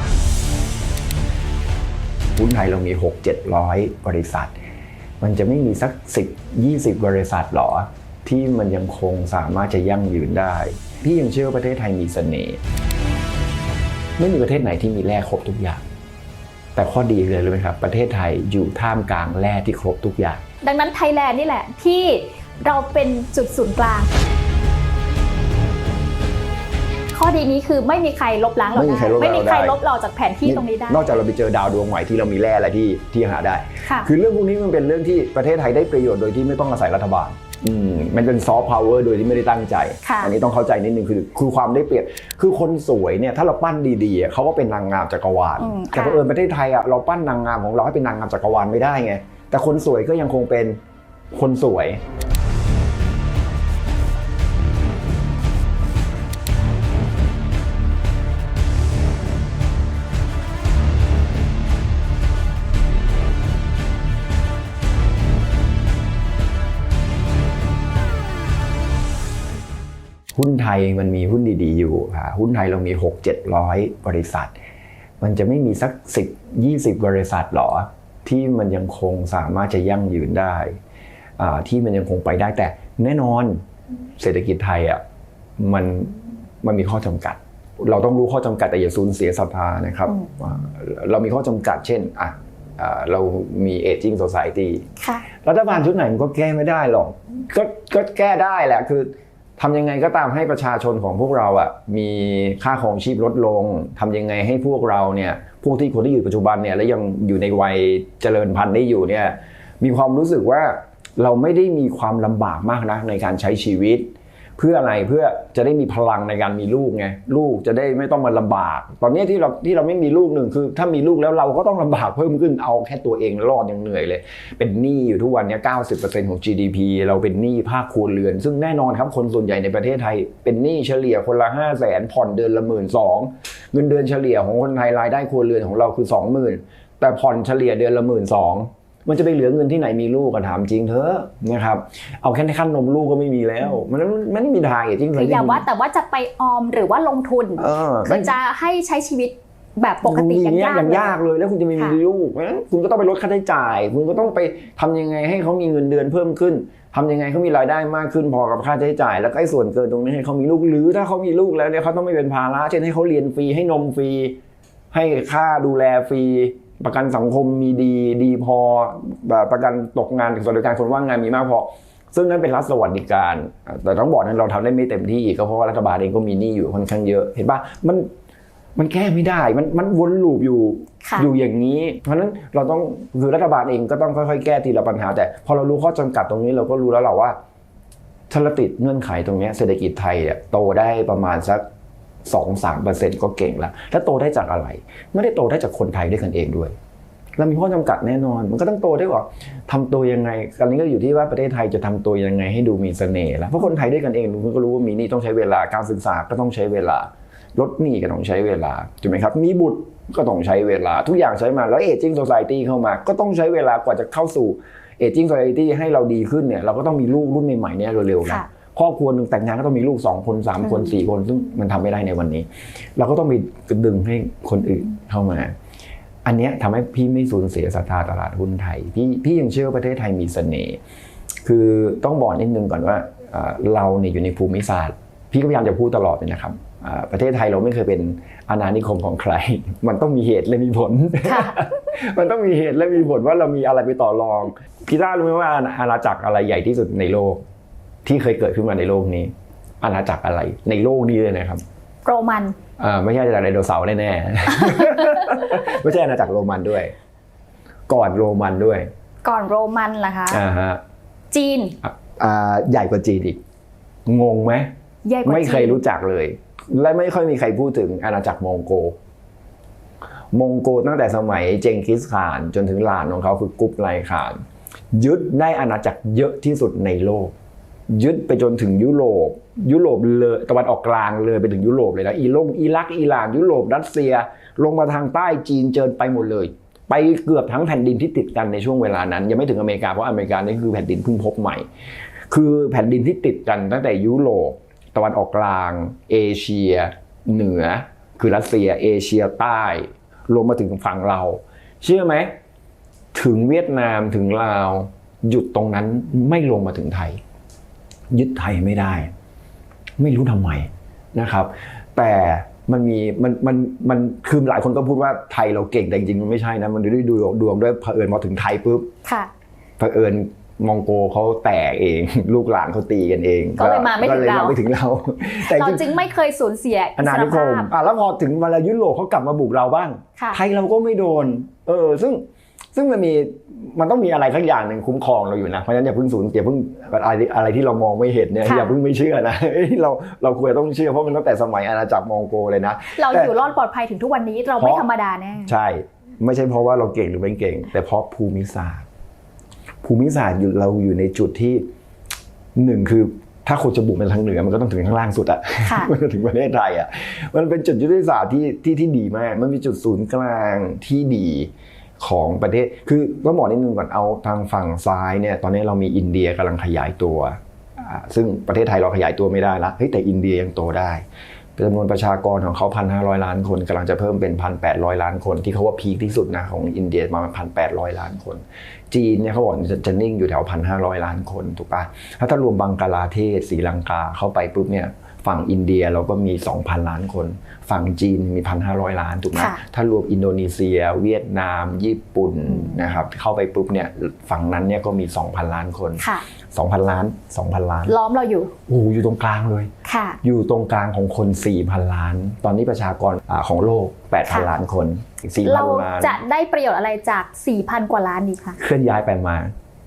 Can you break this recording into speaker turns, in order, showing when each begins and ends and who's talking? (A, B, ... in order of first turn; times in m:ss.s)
0:02.4-0:04.6 A
0:05.2-0:12.6 A
0:14.2-0:15.8 A
0:16.8-0:20.4 A
0:20.6-0:24.1 B
0:27.1-0:31.2 B
0:28.8-0:29.8 A
0:30.4-0:50.8 A
0:33.8-0:34.1 B
0:40.0-0:40.3 B
0:45.6-0:46.2 B
0:51.3-0:52.0 A
1:10.4-1:14.6 A
1:15.2-1:20.8 A
1:21.4-1:23.6 A
1:24.2-1:25.0 A
1:25.6-1:34.9 A
1:35.0-1:35.3 B
1:35.4-2:25.6 A
2:25.1-2:31.2 B
2:27.6-2:28.3 A
2:30.0-2:44.4 A
2:44.9-2:58.1 A
2:58.8-3:07.4 A
3:08.3-3:11.6 A
3:12.3-3:16.8 A
3:17.4-3:45.5 A
3:46.2-3:50.8 A
3:51.4-4:07.4 A
4:01.2-4:01.6 B
4:08.0-4:11.6 A
4:12.0-4:12.6 B
4:12.8-4:16.9 A
4:14.7-4:15.2 B
4:17.9-4:18.9 A
4:19.2-4:20.4 B
4:20.3-4:20.8 A
4:21.3-4:21.8 B
4:21.8-4:23.4 A
4:24.1-4:24.7 A
4:25.0-4:25.8 B
4:25.2-4:29.0 A
4:30.3-4:34.4 A
4:34.9-4:37.3 A
4:37.9-4:51.6 A
4:52.3-5:02.3 A
5:03.1-5:07.2 A
5:08.1-5:09.1 A
5:10.0-5:18.9 A
5:19.0-5:19.3 B
5:19.8-5:25.8 A
5:23.6-5:24.6 B
5:25.4-5:27.7 B
5:27.0-5:43.3 A
5:38.4-5:38.8 B
5:42.9-5:45.5 B
5:44.6-5:44.8 A
5:45.5-5:48.9 A
5:49.8-5:51.6 A
5:52.6-6:11.0 A
6:11.6-6:37.9 A
6:29.4-6:29.6 B
6:32.5-6:32.8 B
6:36.0-6:36.2 B
6:37.9-6:38.5 B
6:38.7-6:39.7 A
6:39.8-6:40.2 B
6:40.2-6:46.2 A
6:45.4-6:48.6 B
6:48.6-6:49.5 A